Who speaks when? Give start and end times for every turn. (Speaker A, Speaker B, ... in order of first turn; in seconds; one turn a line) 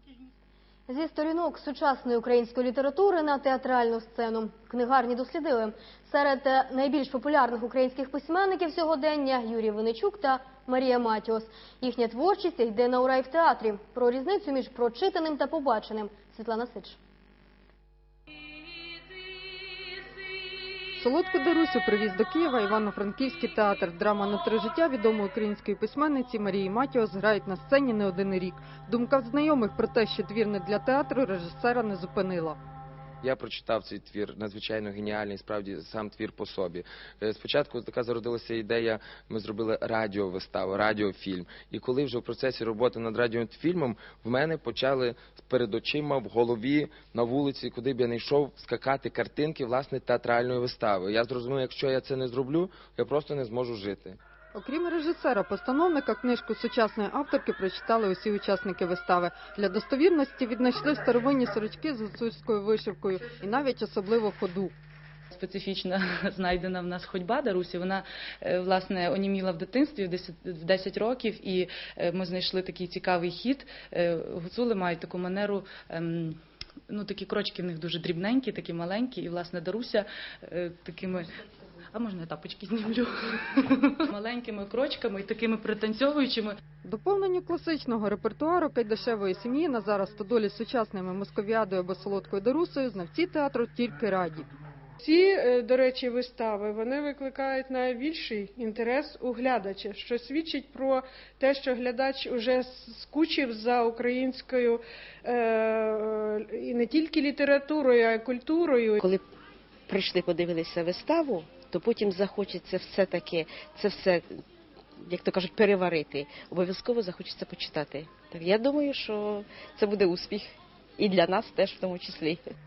Speaker A: 0.9-17.0
Speaker B: 21.0-32.6
Speaker C: 33.2-54.2
Speaker B: 54.5-64.7
Speaker D: 65.3-76.4
Speaker D: 76.9-81.3
Speaker D: 81.9-86.6
Speaker B: 86.8-94.5
Speaker E: 95.0-109.0
Speaker F: 109.0-109.2
Speaker F: 109.9-114.3
Speaker F: 115.0-122.4